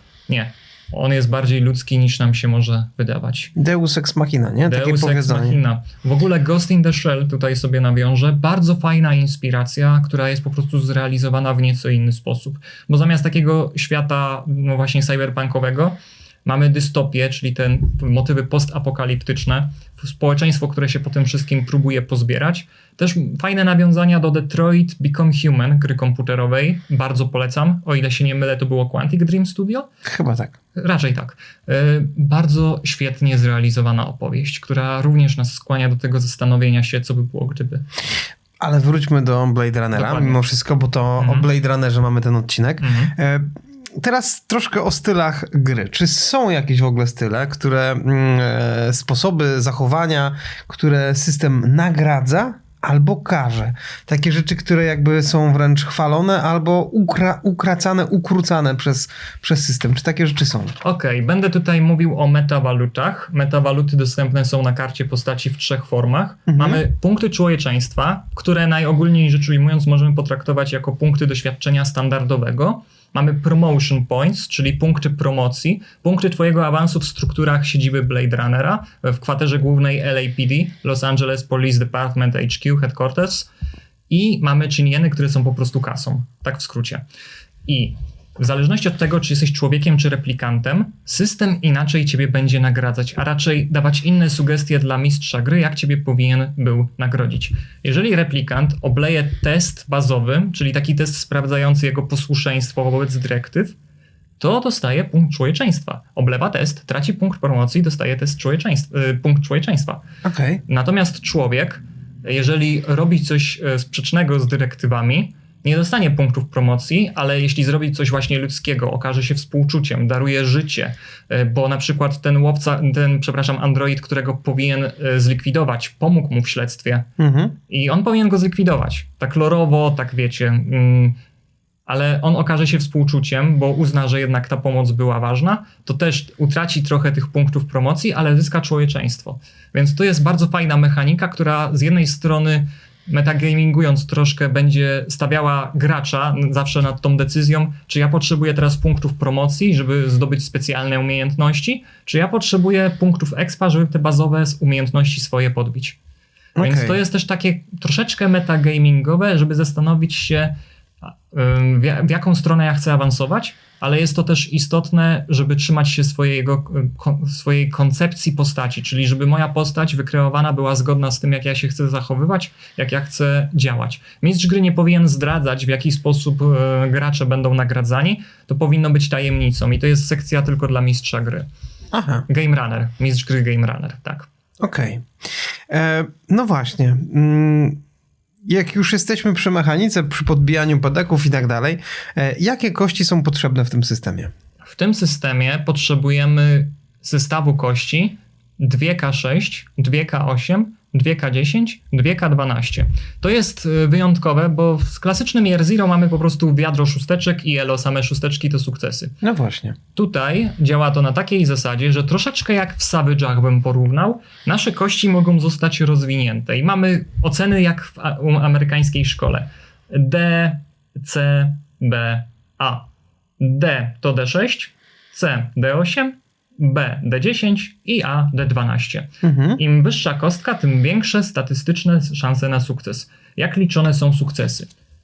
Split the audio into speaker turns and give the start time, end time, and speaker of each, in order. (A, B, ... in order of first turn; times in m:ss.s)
0:00.3-0:03.5 A
0:03.6-0:05.6 B
0:04.7-0:29.9 A
0:30.0-0:30.6 B
0:30.8-0:37.8 A
0:38.6-1:00.8 B
0:39.9-0:40.4 A
0:41.2-0:41.5 A
0:42.8-0:43.2 A
1:00.8-1:23.5 A
1:06.5-1:06.8 B
1:24.1-1:27.0 A
1:27.7-1:43.8 A
1:44.4-1:50.0 A
1:50.2-1:50.6 B
1:50.7-2:07.1 A
2:07.2-2:07.6 B
2:07.7-2:11.2 A
2:11.9-2:36.0 A
2:36.6-2:37.0 B
2:36.6-3:01.5 A
3:01.9-3:02.3 B
3:02.3-3:04.3 A
3:04.6-3:05.1 B
3:05.7-3:07.8 B
3:08.4-3:14.3 B
3:14.6-3:29.2 A
3:29.2-3:29.8 B
3:30.0-3:42.9 A
3:43.4-3:54.7 A
3:49.2-3:49.6 B